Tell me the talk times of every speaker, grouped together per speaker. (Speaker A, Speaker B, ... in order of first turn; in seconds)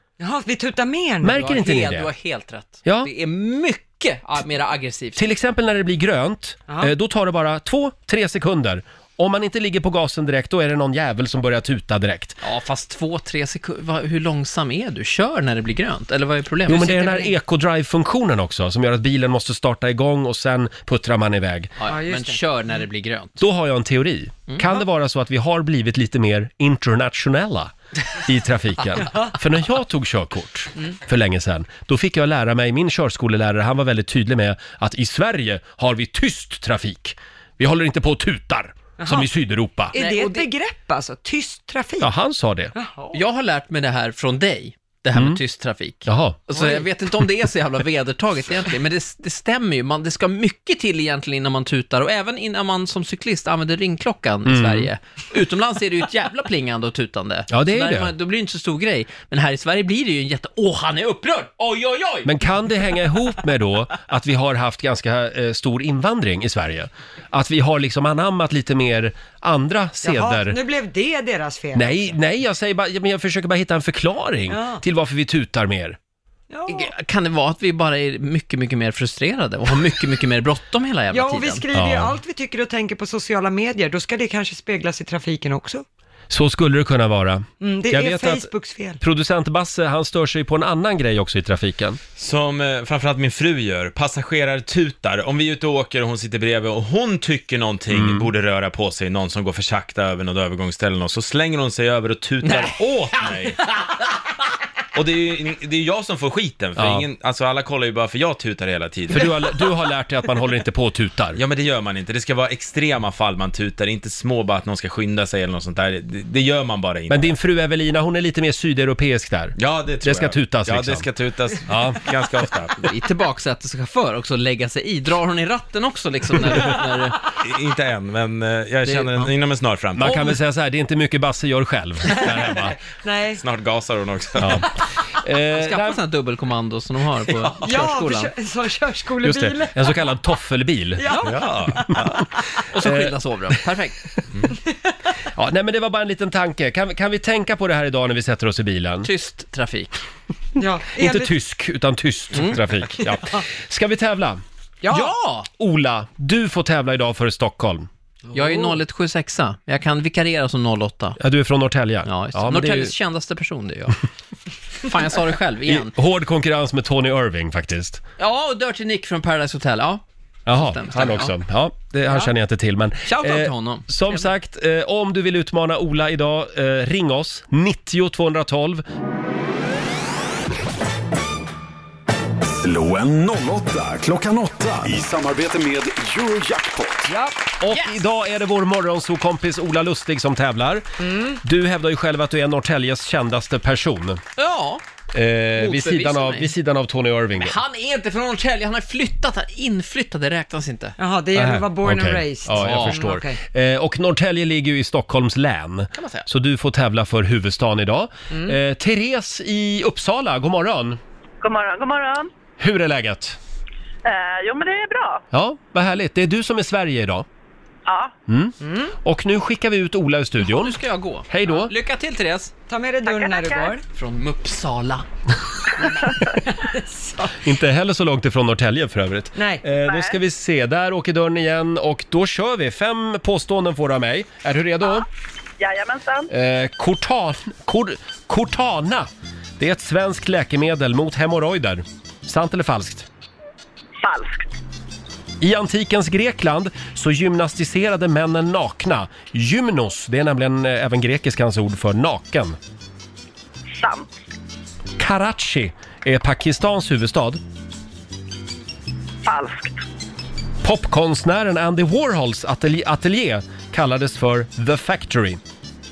Speaker A: 0.2-1.5, 21.9-22.4, 29.0-29.3, 39.0-39.3, 39.9-42.1, 42.7-43.2, 46.6-46.8, 70.0-72.1, 74.5-74.8, 76.5-76.9, 81.1-85.8, 87.6-89.0, 132.1-133.4, 137.6-140.0, 141.0-142.2, 150.6-151.3, 154.8-155.1, 158.3-158.7, 191.0-191.4, 201.0-203.4, 208.3-208.6, 218.6-218.9, 222.7-223.8, 226.2-227.4, 229.3-229.6
Speaker B: 1.2-2.1, 2.8-3.1, 5.2-12.4, 16.7-21.7, 23.4-39.9, 42.0-42.7, 45.1-45.4, 46.0-46.4, 54.5-54.9, 57.5-58.1, 62.2-70.6, 71.7-76.0, 81.7-82.1, 86.3-88.5, 89.0-92.0, 97.9-98.3, 106.8-107.0, 109.1-111.4, 117.1-121.0, 121.7-122.0, 129.9-132.8, 134.4-136.0, 139.2-141.1, 141.7-141.9, 142.8-143.1, 145.3-149.1, 150.9-154.4, 155.5-157.9, 161.2-162.9, 165.6-168.0, 170.5-178.8, 187.6-190.8, 191.4-194.2, 195.1-197.6, 201.3-211.0, 212.6-213.4, 215.3-217.2, 218.3-221.7, 227.4-235.1, 236.3-243.1, 245.4-252.6, 255.0-257.4, 260.6-265.4
Speaker C: 1.3-5.2, 12.4-17.3, 21.8-23.4, 39.9-40.5, 43.1-62.3, 76.7-81.6, 102.4-102.8, 122.8-127.3, 128.8-129.3, 135.6-138.3, 142.7-144.2, 149.0-150.0, 154.9-155.5, 158.3-161.2, 162.1-164.0, 164.8-165.9, 168.2-171.3, 172.1-172.3, 173.1-174.3, 194.4-194.8, 195.6-196.5, 197.3-200.9, 202.6-203.0, 205.9-206.3, 220.4-222.5, 223.9-225.0
Speaker D: 92.2-103.6, 104.9-109.3, 111.3-117.3, 119.5-122.9, 127.4-130.3, 133.4-134.7, 141.3-142.2
Speaker E: 182.4-187.1
Speaker F: 211.4-212.3, 214.0-215.2, 217.8-218.1, 223.0-223.8, 229.8-230.2, 235.6-236.3, 244.0-244.4, 253.7-254.1, 259.2-259.8